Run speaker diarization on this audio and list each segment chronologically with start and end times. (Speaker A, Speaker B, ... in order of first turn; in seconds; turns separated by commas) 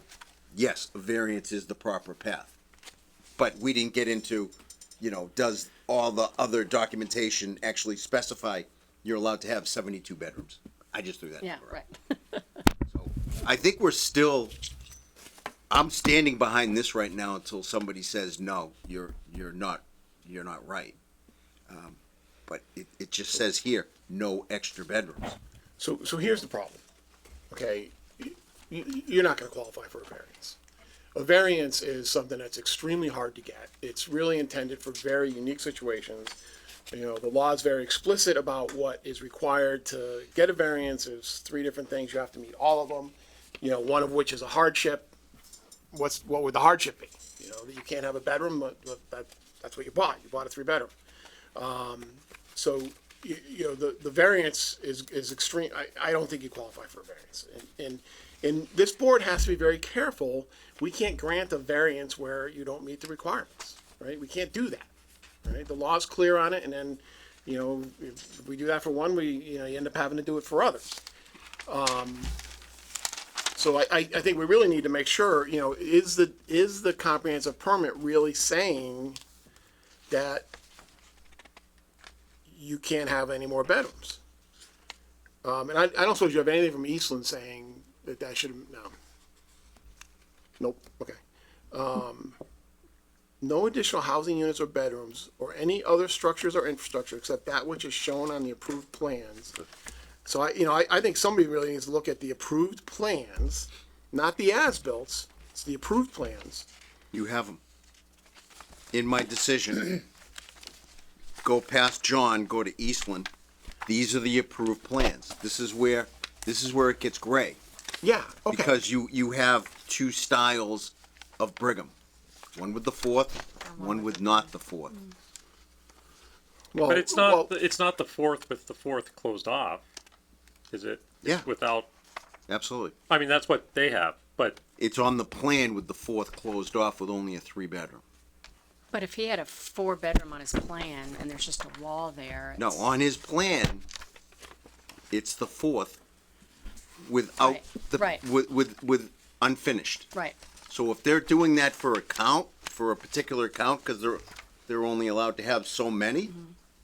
Speaker A: 0.5-2.5, Speaker A: 3.4-11.8, Speaker B: 11.4-12.6, Speaker A: 12.9-14.6, Speaker A: 15.7-20.9, Speaker A: 21.7-25.4, Speaker C: 25.8-26.8, Speaker C: 27.5-30.6, Speaker C: 31.1-36.4, Speaker C: 36.9-45.1, Speaker C: 45.9-50.9, Speaker C: 51.5-64.9, Speaker C: 65.4-71.0, Speaker C: 71.7-72.3, Speaker C: 73.5-79.2, Speaker C: 80.1-80.5, Speaker C: 82.5-84.2, Speaker C: 85.4-88.9, Speaker C: 90.6-91.2, Speaker C: 91.7-92.4, Speaker C: 93.4-99.5, Speaker C: 100.2-106.7, Speaker A: 107.1-107.6, Speaker A: 108.9-110.0, Speaker A: 111.4-113.3, Speaker A: 113.8-117.6, Speaker C: 118.0-118.8, Speaker A: 118.5-121.9, Speaker A: 122.5-125.0, Speaker B: 123.7-124.5, Speaker C: 126.7-127.5, Speaker D: 126.9-129.8, Speaker D: 130.7-131.9, Speaker A: 132.5-132.9, Speaker D: 133.1-134.6, Speaker A: 134.8-138.0, Speaker B: 138.9-142.8, Speaker A: 142.6-143.8, Speaker A: 145.1-146.0, Speaker A: 147.0-150.1, Speaker B: 147.4-148.2, Speaker A: 150.7-156.3